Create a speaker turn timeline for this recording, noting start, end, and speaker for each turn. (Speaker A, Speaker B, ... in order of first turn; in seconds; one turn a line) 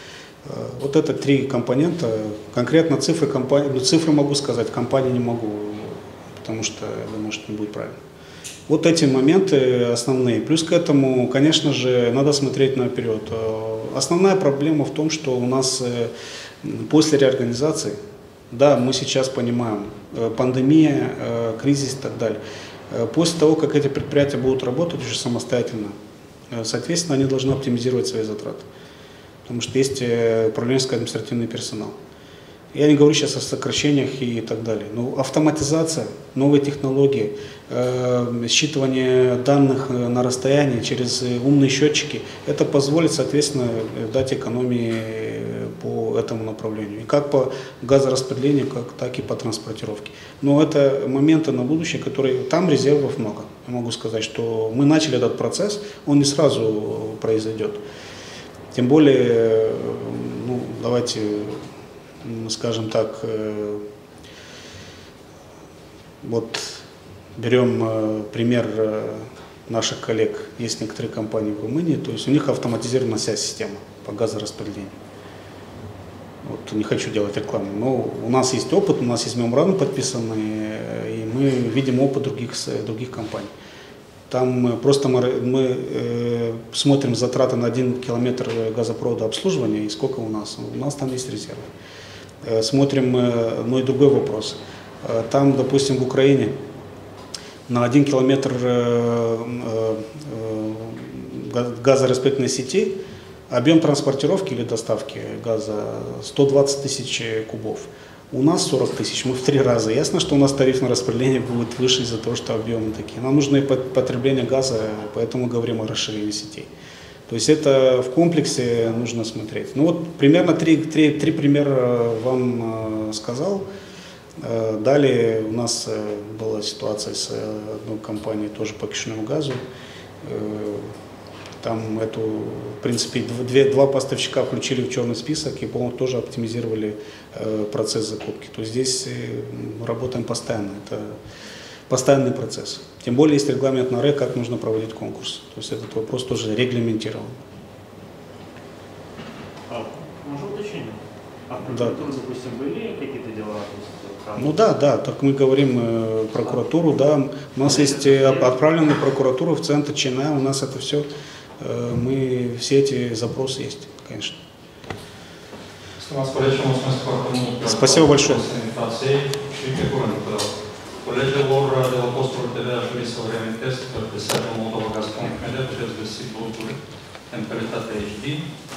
Speaker A: 0.4-8.0
Speaker A: 8.7-18.0
Speaker A: 18.5-25.9
Speaker A: 26.5-28.7
Speaker A: 29.4-32.0
Speaker A: 32.7-57.8
Speaker A: 58.7-61.6
Speaker A: 62.2-63.8
Speaker A: 66.2-66.8
Speaker A: 67.4-75.0
Speaker A: 76.4-83.5
Speaker A: 84.3-91.7
Speaker A: 92.4-96.6
Speaker A: 97.7-116.7
Speaker A: 117.3-123.7
Speaker A: 124.4-129.6
Speaker A: 130.2-130.9
Speaker A: 131.6-141.2
Speaker A: 141.9-147.4
Speaker B: 149.7-154.7
Speaker A: 151.6-152.0
Speaker A: 154.3-161.1
Speaker B: 157.6-158.5
Speaker A: 161.6-164.4
Speaker C: 166.0-170.5
Speaker A: 167.6-168.5
Speaker C: 171.0-176.8
Speaker C: 177.3-178.4